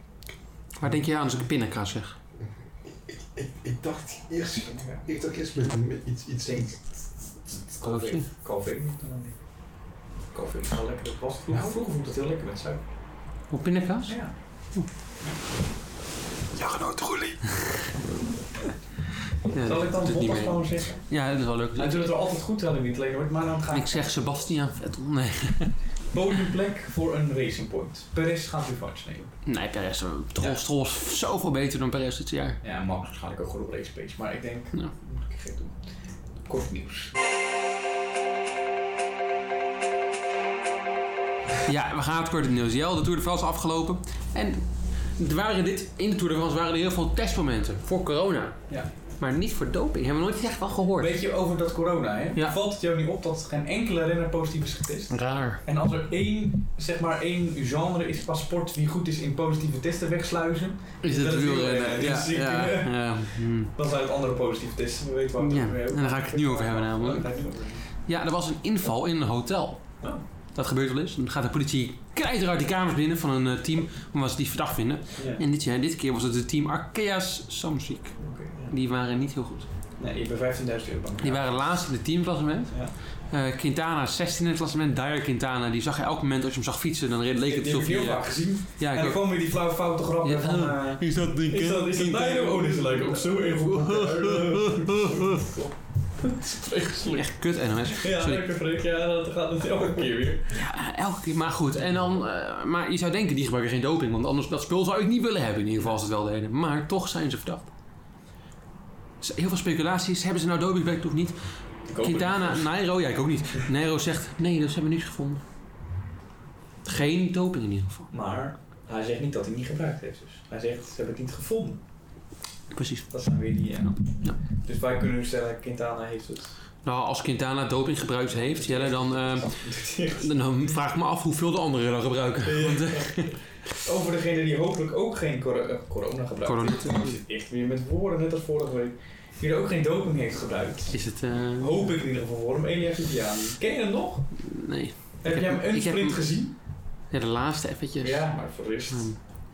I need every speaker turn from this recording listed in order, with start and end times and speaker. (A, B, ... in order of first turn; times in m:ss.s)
0:00.8-0:02.2 A
0:03.3-0:06.7 B
0:04.6-0:05.0 C
0:06.4-0:09.4 C
0:07.8-0:08.2 A
0:10.3-0:12.8 C
0:11.5-0:11.8 B
0:13.5-0:14.9 A
0:14.1-0:14.3 C
0:16.6-0:17.9 A
0:19.5-0:22.1 A
0:19.6-0:21.1 C
0:21.8-0:24.4 C
0:23.7-0:25.8 A
0:26.1-0:29.3 C
0:29.4-0:32.6 A
0:32.6-0:35.8 C
0:36.4-0:37.1 C
0:41.6-0:51.2 A
0:51.0-1:07.8 C
0:55.1-0:55.6 A
1:01.0-1:03.7 A
1:05.4-1:07.4 A
1:08.0-1:19.7 A
1:15.2-1:15.4 C
1:18.2-1:18.7 C
1:20.0-1:21.6 C
1:21.2-1:29.7 A
1:27.4-1:40.6 C
1:30.2-1:35.4 A
1:37.1-1:38.4 A
1:40.5-1:47.7 A
1:49.2-1:55.4 A
1:51.8-1:52.7 C
1:56.8-1:58.1 A
1:58.1-2:01.8 C
2:02.7-2:03.2 A
2:03.1-2:06.5 C
2:06.8-2:13.4 A
2:08.4-2:10.3 C
2:12.4-2:21.0 C
2:16.4-2:17.2 A
2:20.9-2:21.9 A
2:21.6-2:24.3 C
2:24.4-2:26.5 A
2:25.2-2:26.5 C
2:27.1-2:29.2 A
2:28.0-2:29.2 C